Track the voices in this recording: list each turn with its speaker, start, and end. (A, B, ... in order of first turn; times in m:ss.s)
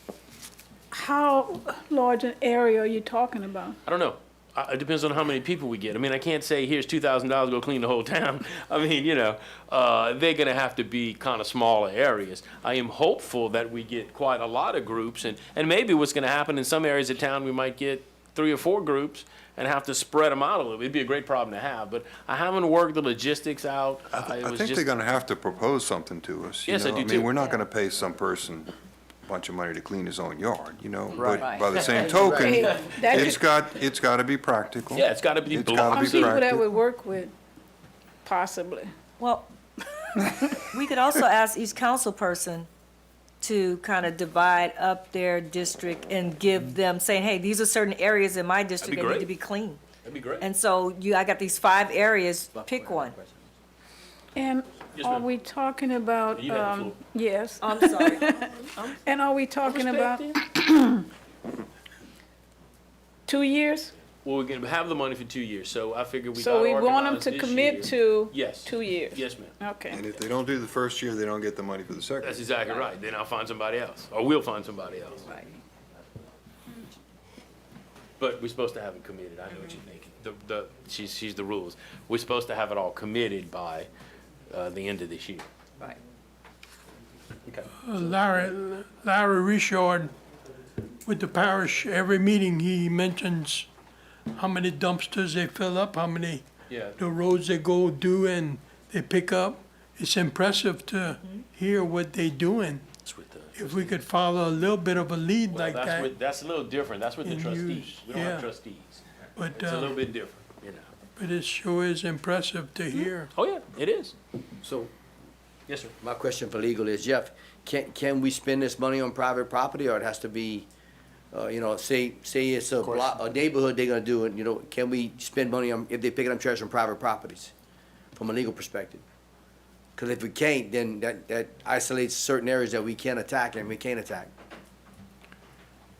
0:00.9-0:03.8 A
0:03.9-0:24.9 B
0:24.1-0:28.7 C
0:26.7-0:27.5 B
0:29.2-0:36.7 C
0:31.2-0:33.0 B
0:32.0-0:32.8 D
0:32.3-0:33.4 A
0:34.9-0:36.4 B
0:35.8-0:37.3 A
0:38.2-0:38.9 A
0:39.2-0:39.5 E
0:40.0-0:42.7 E
0:43.4-0:49.8 E
0:48.8-0:49.3 B
0:50.0-0:50.5 B
0:50.4-0:53.2 E
0:52.6-0:53.4 D
0:54.4-1:01.1 A
0:55.0-0:55.3 B
0:56.3-0:57.0 B
0:57.6-0:59.0 E
0:59.6-1:00.4 B
1:03.3-1:03.9 A
1:04.2-1:09.6 B
1:06.3-1:10.0 A
1:09.9-1:12.4 C
1:12.2-1:15.3 B
1:18.2-1:23.9 B
1:24.5-1:25.5 B
1:27.8-1:30.1 F
1:31.1-1:33.7 F
1:34.4-1:36.4 F
1:36.7-1:37.0 B
1:37.0-1:42.9 F
1:43.0-1:44.0 B
1:43.6-1:46.1 F
1:45.5-1:50.9 B
1:47.2-1:48.5 F
1:49.4-1:50.0 F
1:51.2-1:53.3 F
1:52.9-1:54.2 B
1:54.6-1:54.9 D
1:55.7-1:55.9 B
1:56.0-2:00.7 D
2:01.3-2:07.5 D
2:08.2-2:09.0 D
2:10.0-2:14.3 D